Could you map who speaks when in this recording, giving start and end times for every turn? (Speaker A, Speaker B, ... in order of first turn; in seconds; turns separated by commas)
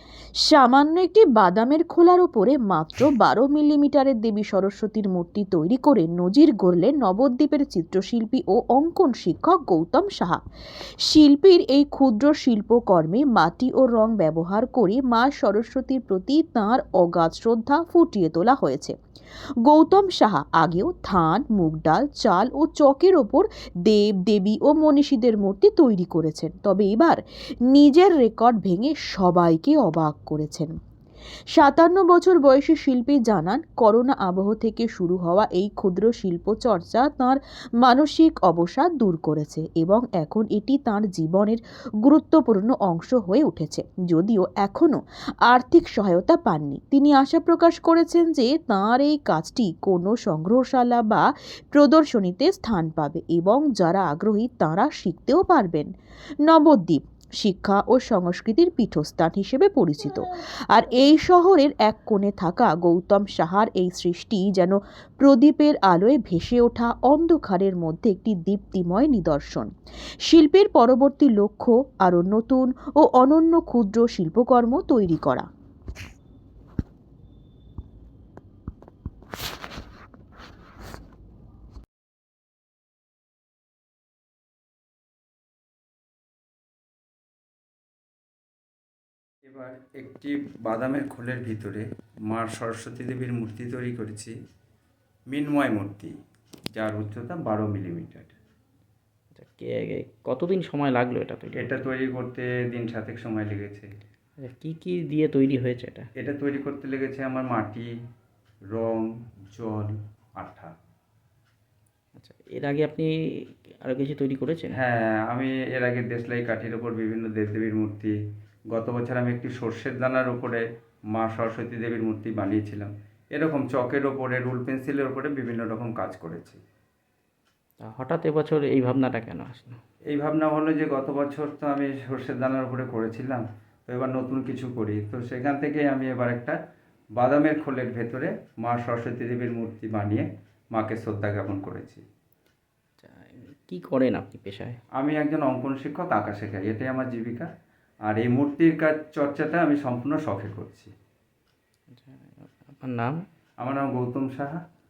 Speaker A: 0.5-10.4, Speaker A: 11.0-18.9, Speaker A: 19.6-30.7, Speaker A: 31.6-55.9, Speaker A: 56.4-69.7, Speaker A: 70.2-75.5, Speaker B: 89.5-94.3, Speaker B: 95.3-96.1, Speaker B: 96.8-98.3, Speaker C: 99.3-101.8, Speaker B: 101.5-103.9, Speaker C: 104.4-106.1, Speaker B: 106.2-107.9, Speaker B: 108.7-110.7, Speaker C: 112.2-113.1, Speaker C: 113.8-114.8, Speaker B: 114.7-118.1, Speaker B: 118.7-126.6, Speaker C: 127.8-129.8, Speaker B: 130.1-136.6, Speaker B: 137.2-142.0, Speaker C: 143.0-144.8, Speaker B: 145.0-147.5, Speaker B: 148.1-150.9, Speaker C: 151.9-153.2, Speaker B: 153.6-154.6